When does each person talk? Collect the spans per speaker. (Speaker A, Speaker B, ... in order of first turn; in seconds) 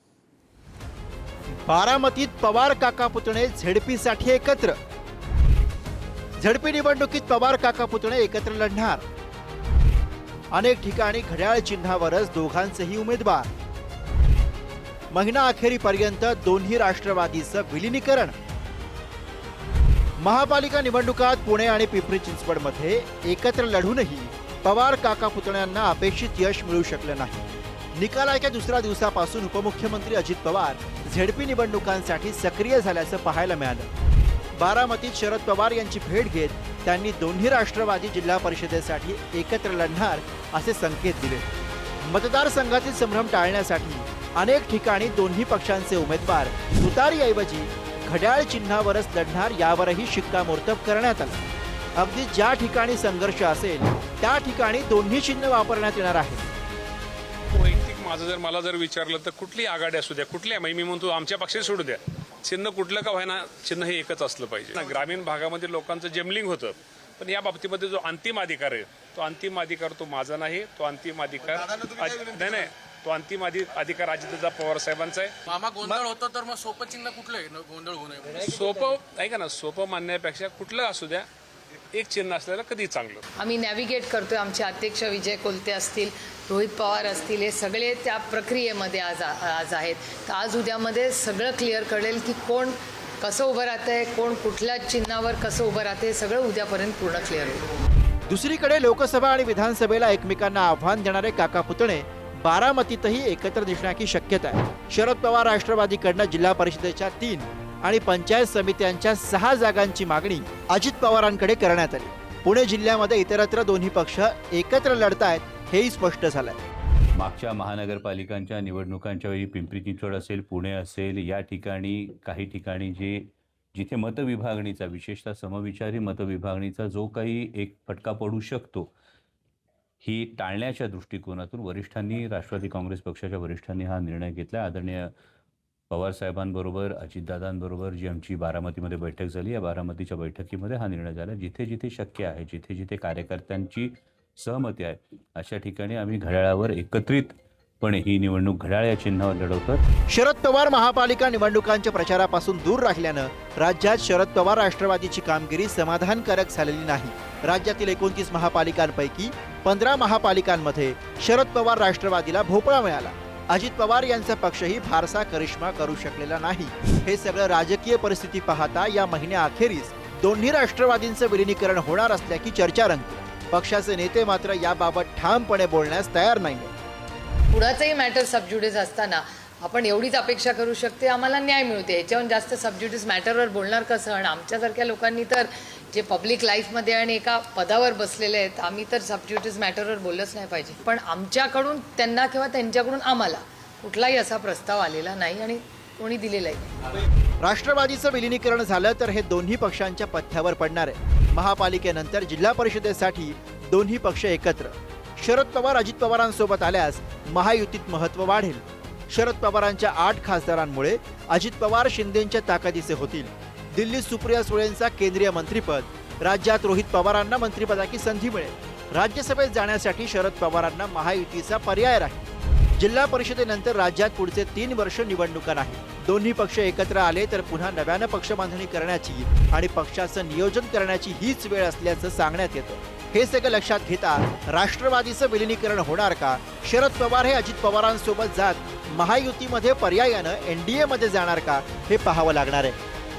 Speaker A: 1.7-4.8, 6.4-9.0, 10.5-13.5, 15.1-18.4, 20.2-33.9, 34.6-41.5, 42.1-51.4, 52.0-56.5, 98.3-116.6, 150.1-176.7, 197.4-222.3, 222.8-242.8
Speaker B: 57.5-75.3, 78.3-81.3, 81.9-83.2
Speaker C: 75.5-78.5
Speaker D: 83.4-97.6, 177.5-196.8
Speaker E: 117.2-128.9, 130.0-135.1, 135.9-149.8